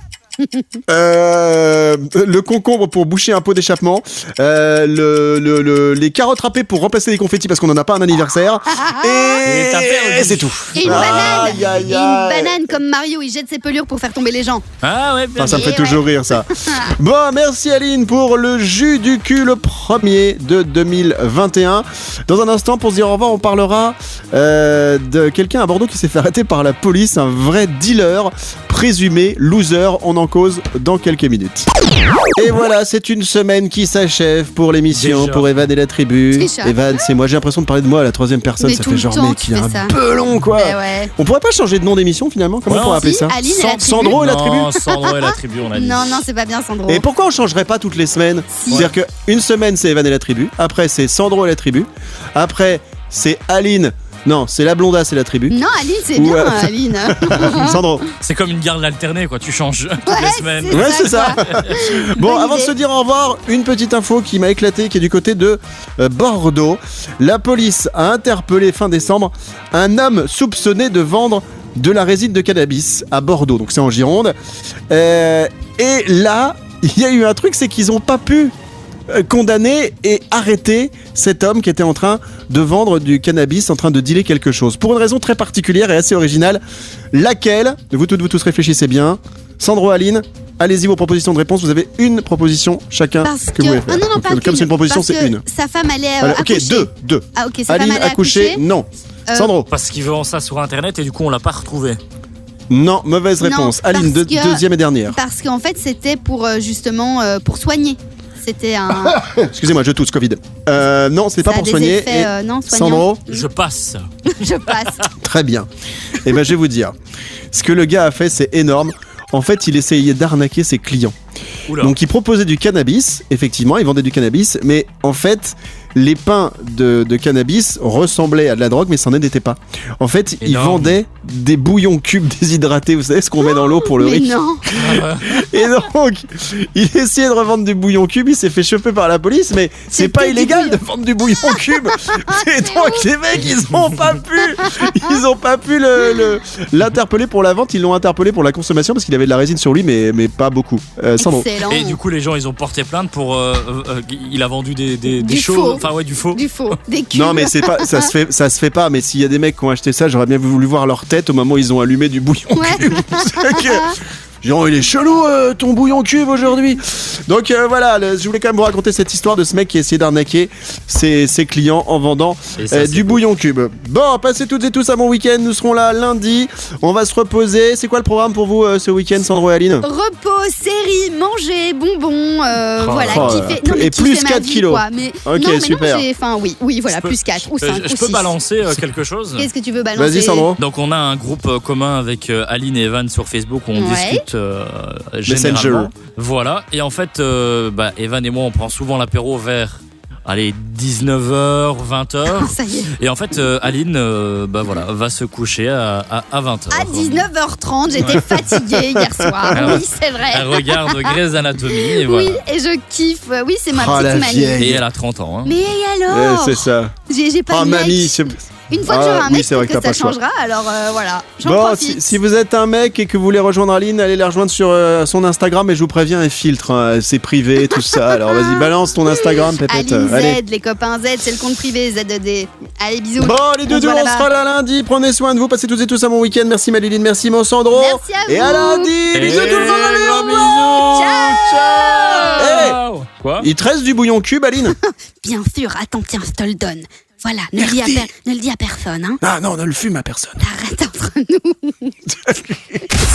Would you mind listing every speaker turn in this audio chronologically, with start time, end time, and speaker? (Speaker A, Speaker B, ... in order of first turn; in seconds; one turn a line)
Speaker A: 0.9-12.7
Speaker B: 8.7-9.4
Speaker C: 9.4-11.8
Speaker B: 10.8-14.7
Speaker C: 14.8-15.8
Speaker A: 15.4-31.7
Speaker B: 15.5-16.9
Speaker A: 32.4-44.7
Speaker C: 34.9-35.5
Speaker B: 36.3-37.0
Speaker B: 38.6-40.0
Speaker B: 40.6-41.1
Speaker C: 42.7-43.1
Speaker B: 42.7-44.2
Speaker C: 43.9-46.1
Speaker B: 44.8-47.0
Speaker A: 46.9-55.6
Speaker B: 55.5-57.8
Speaker A: 56.1-58.0
Speaker C: 58.2-61.7
Speaker B: 60.1-62.7
Speaker A: 60.7-74.3
Speaker A: 74.9-78.5
Speaker A: 79.1-86.6
Speaker A: 87.1-95.4
Speaker B: 93.2-98.6
Speaker A: 96.2-99.7
Speaker C: 99.7-102.0
Speaker A: 102.7-105.2
Speaker B: 103.4-109.2
Speaker A: 109.1-113.3
Speaker B: 111.4-113.4
Speaker C: 113.3-114.1
Speaker B: 114.2-115.1
Speaker A: 115.2-116.9
Speaker A: 117.5-121.2
Speaker C: 121.7-122.0
Speaker A: 121.8-151.5
Speaker C: 130.4-131.0
Speaker B: 133.6-134.7
Speaker C: 134.7-135.5
Speaker B: 139.9-140.8
Speaker B: 141.4-143.1
Speaker B: 144.6-145.1
Speaker B: 151.2-152.0
Speaker C: 151.7-156.4
Speaker B: 155.2-158.1
Speaker A: 157.1-179.9
Speaker B: 162.6-164.0
Speaker C: 172.6-173.2
Speaker B: 179.8-188.3
Speaker C: 182.8-183.5
Speaker A: 183.1-186.1
Speaker C: 186.9-189.5
Speaker B: 189.4-190.5
Speaker A: 190.0-190.6
Speaker C: 190.6-207.3
Speaker B: 193.8-194.2
Speaker A: 195.3-195.9
Speaker B: 202.3-203.0
Speaker B: 206.7-211.2
Speaker A: 208.0-209.8
Speaker C: 209.5-212.4
Speaker B: 211.7-214.6
Speaker A: 213.7-214.8
Speaker C: 214.6-215.6
Speaker B: 215.4-222.2
Speaker A: 216.1-216.9
Speaker A: 217.5-220.2
Speaker A: 221.4-230.4
Speaker B: 227.7-234.3
Speaker A: 233.2-240.1
Speaker B: 237.7-242.7
Speaker C: 239.1-243.5
Speaker A: 242.3-242.8
Speaker A: 243.4-244.8
Speaker B: 244.8-249.2
Speaker A: 247.6-248.1
Speaker A: 249.2-250.4
Speaker B: 250.4-252.0
Speaker A: 252.1-252.9